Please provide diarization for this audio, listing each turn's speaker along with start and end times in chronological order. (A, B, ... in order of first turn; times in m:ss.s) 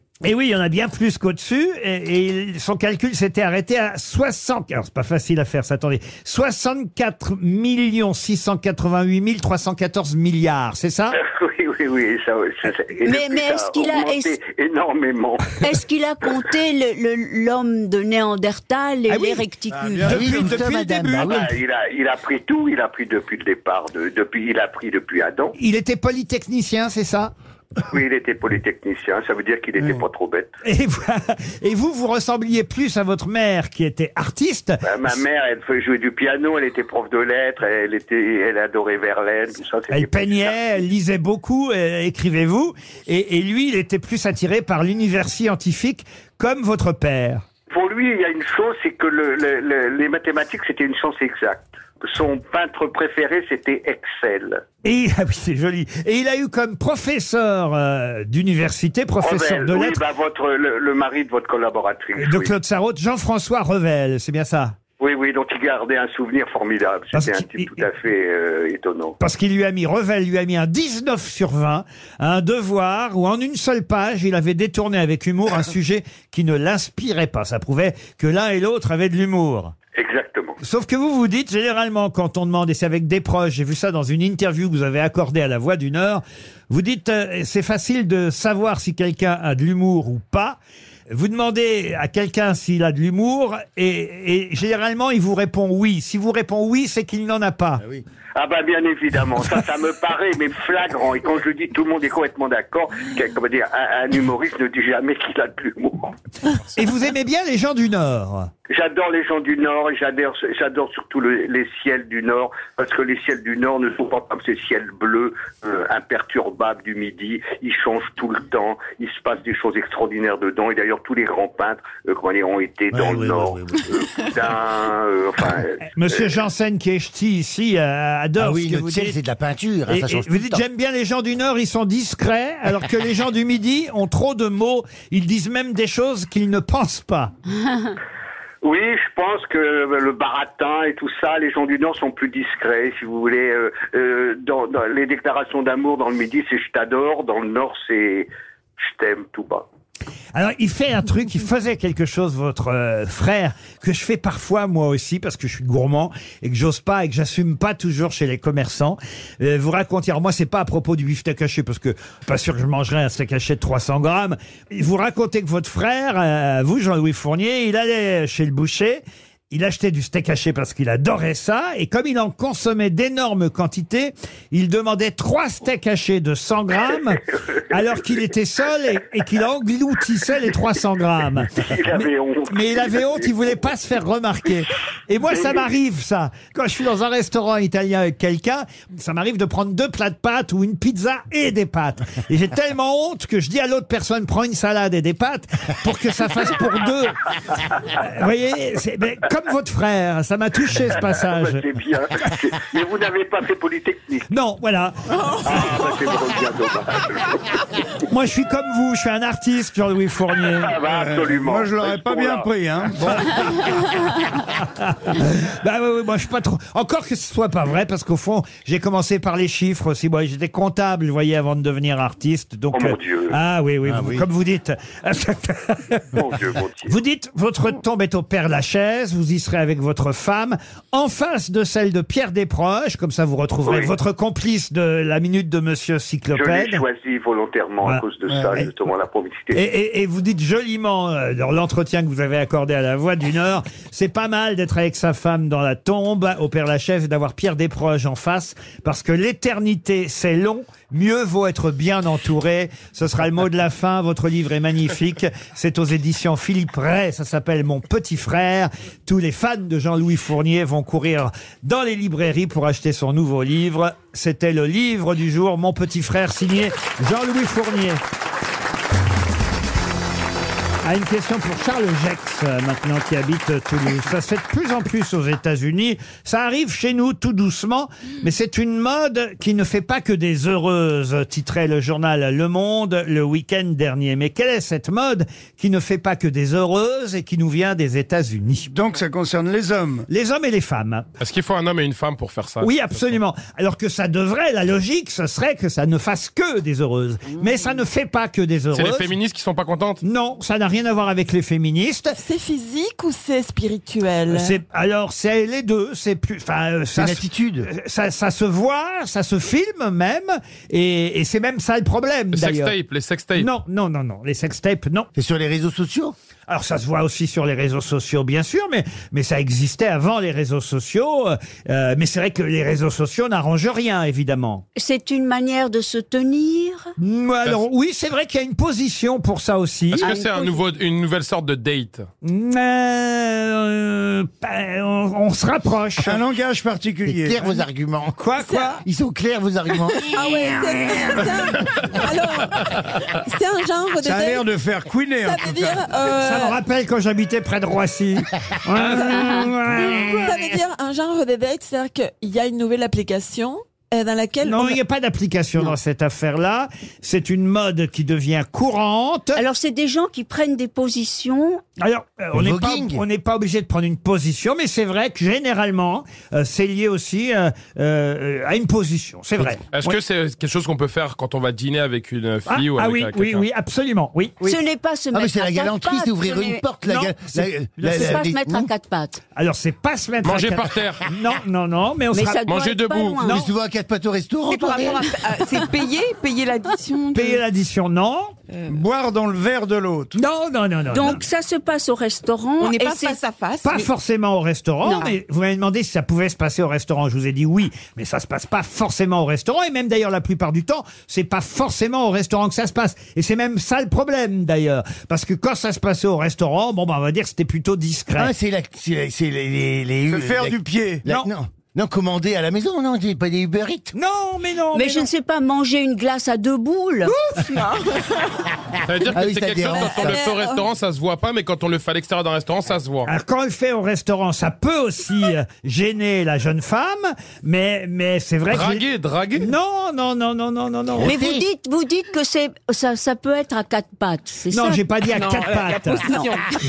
0:00.2-0:11.2 A
0:11.1-0:15.6 B
0:13.0-0:14.4 C
0:15.6-0:20.1 C
0:19.1-0:19.4 A
0:19.7-0:20.7 D
0:20.0-0:21.4 A
0:20.0-0:21.6 E
0:21.2-0:25.6 B
0:25.6-0:27.3 A
0:27.9-0:30.5 B
0:30.6-0:35.2 A
0:34.8-0:40.8 B
0:39.9-0:47.4 A
0:47.7-0:54.6 B
0:54.8-1:00.0 A
0:59.2-1:02.5 B
1:02.2-1:04.8 A
1:05.0-1:09.2 B
1:07.1-1:07.7 A
1:09.2-1:19.7 A
1:19.9-1:20.6 B
1:20.6-1:37.8 A
1:38.4-1:46.1 B
1:46.7-1:48.5 A
1:48.7-2:06.4 B
2:02.9-2:03.8 E
2:05.9-2:09.2 A
2:08.4-2:10.6 E
2:09.9-2:17.3 A
2:18.6-2:29.7 B
2:30.3-3:17.2 A
3:01.6-3:03.6 B
3:05.3-3:05.7 B
3:17.9-3:21.6 A
3:21.0-3:24.3 B
3:24.3-3:25.9 A
3:25.4-3:27.3 B
3:28.1-3:30.7 A
3:30.5-3:32.5 B
3:30.8-3:33.7 D
3:34.6-3:46.2 A
3:42.7-3:43.4 B
3:43.9-3:44.2 E
3:46.1-3:47.0 B
3:46.9-3:56.8 A
3:53.6-3:53.9 B
3:56.3-3:59.6 B
3:58.3-3:58.6 D
3:59.5-4:28.0 A
4:30.8-4:48.7 A
4:48.7-4:50.1 D
4:50.1-4:51.1 A
4:51.2-4:53.1 F
4:52.6-4:59.1 A
4:58.7-5:00.0 F
5:00.0-5:02.2 A
5:02.1-5:04.6 G
5:04.3-5:12.7 A
5:07.0-5:07.7 E
5:12.3-5:13.5 F
5:13.4-5:15.1 A
5:15.1-5:16.1 E
5:16.5-5:24.6 A
5:24.8-5:26.9 C
5:27.0-5:30.1 A
5:29.9-5:32.1 F
5:30.0-5:30.6 C
5:32.2-5:36.2 A
5:36.0-5:37.5 D
5:37.0-5:38.2 E
5:38.2-5:38.8 A
5:38.4-5:38.8 G
5:38.8-5:40.2 E
5:40.1-5:44.5 G
5:44.0-5:45.9 D
5:45.2-5:46.6 G
5:46.2-5:50.4 A
5:49.1-5:49.4 C
5:49.9-5:54.8 G
5:54.4-5:59.4 A
5:59.3-6:01.6 C
6:01.8-6:10.0 A
6:02.3-6:03.0 E
6:09.7-6:13.4 F
6:12.5-6:14.6 A
6:14.4-6:16.6 C
6:15.1-6:18.7 E
6:16.8-6:18.3 A
6:17.9-6:19.2 C
6:19.3-6:22.4 A
6:20.2-6:21.0 F
6:22.1-6:23.4 C
6:22.4-6:23.2 F
6:23.2-6:23.5 A
6:23.2-6:25.1 E
6:24.5-6:27.4 H
6:27.1-6:28.3 A
6:28.5-6:28.8 H
6:28.7-6:30.2 D
6:30.2-6:31.2 A
6:30.9-6:33.2 C
6:32.6-6:33.9 H
6:33.6-6:48.3 A
6:34.8-6:35.1 C
6:48.2-6:53.9 E
6:50.1-6:51.0 D
6:53.9-6:55.1 A
6:54.7-6:57.1 C
6:57.4-6:58.2 H
6:58.8-7:03.1 F
6:59.1-7:00.3 E
6:59.7-7:00.6 G
7:03.0-7:08.8 A
7:08.5-7:09.5 F
7:09.4-7:11.2 A
7:10.9-7:11.4 E
7:11.0-7:14.8 C
7:14.5-7:16.2 A
7:15.1-7:16.5 H